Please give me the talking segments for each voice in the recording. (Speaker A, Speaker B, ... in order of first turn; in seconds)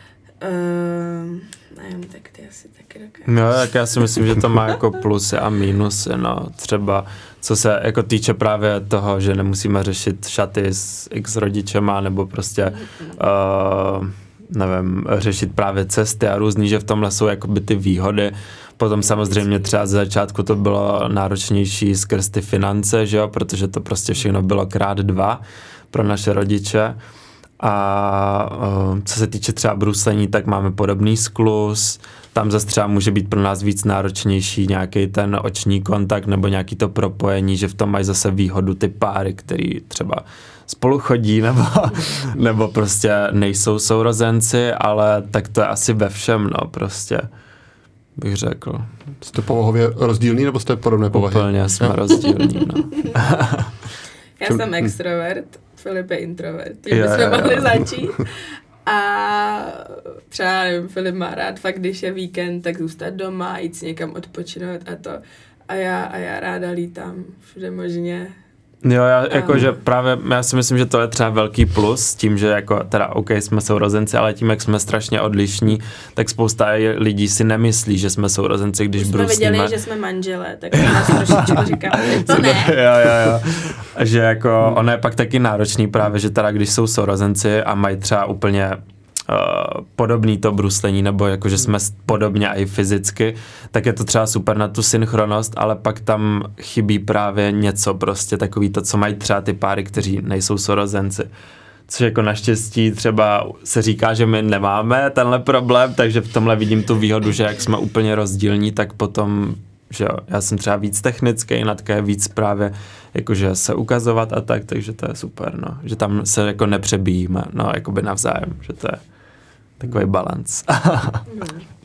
Speaker A: 0.4-4.2, 12.7-13.2, 19.0-19.8, 52.6-53.1, 54.4-68.4, 69.3-69.8, 79.0-82.7, 121.3-121.7
Speaker B: 3.3-27.0, 27.6-47.3, 48.2-48.9, 51.1-53.7, 56.9-57.9, 68.8-79.7, 80.8-101.3, 101.9-119.0, 119.8-121.2
Speaker C: 49.2-52.0, 54.5-54.9